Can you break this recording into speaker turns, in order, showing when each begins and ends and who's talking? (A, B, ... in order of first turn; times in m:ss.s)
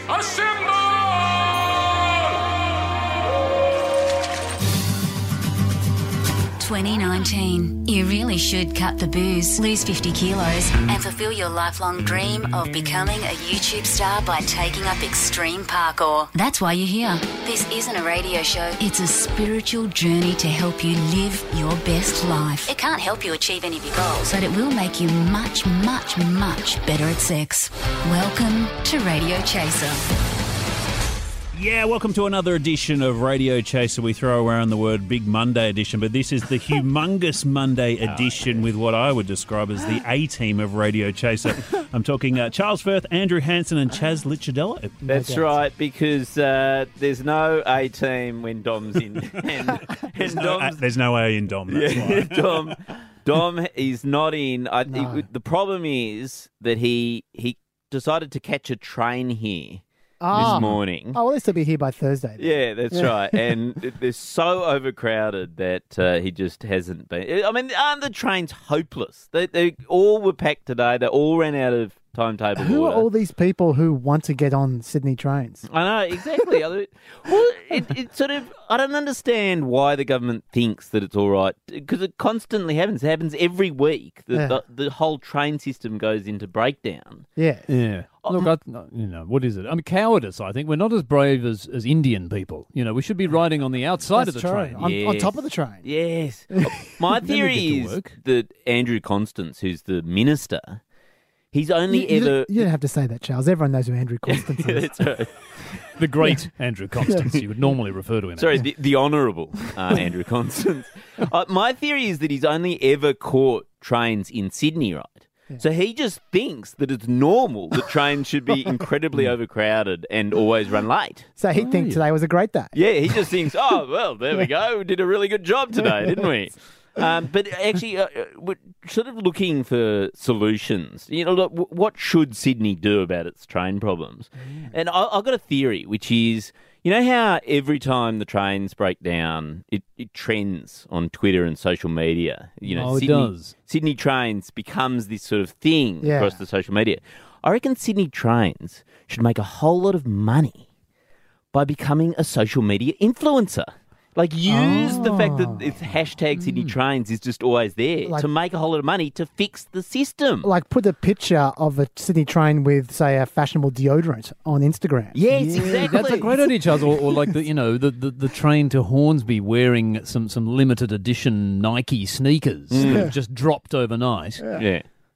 0:06.6-0:30.1 A
0:31.5-0:45.0 B
0:45.0-0:45.5 C
0:45.1-0:50.8 D
0:50.2-0:52.8 B
0:51.7-1:01.2 D
0:54.9-0:55.2 C
1:00.2-1:03.4 C
1:02.4-1:13.1 D
1:12.6-1:15.6 C
1:15.7-1:27.3 D
1:27.4-1:27.7 C
1:27.7-1:34.8 E
1:34.2-1:35.8 C
1:34.8-1:40.8 D
1:36.5-1:36.8 C
1:37.2-1:38.1 E
1:41.5-1:42.7 D
1:41.9-1:44.9 C
1:44.3-1:45.3 D
1:46.0-1:48.6 E
1:48.4-2:01.3 D
2:01.4-2:02.7 C
2:01.6-2:02.0 E
2:02.7-2:30.7 D
2:22.7-2:23.5 E
2:26.0-2:26.4 C
2:31.5-2:40.5 D
2:34.5-2:35.8 C
2:36.4-2:36.8 E
2:40.4-2:46.0 C
2:45.2-2:46.5 D
2:45.5-2:54.5 E
2:52.7-2:53.1 D
2:52.8-2:53.1 C
2:54.5-2:54.8 D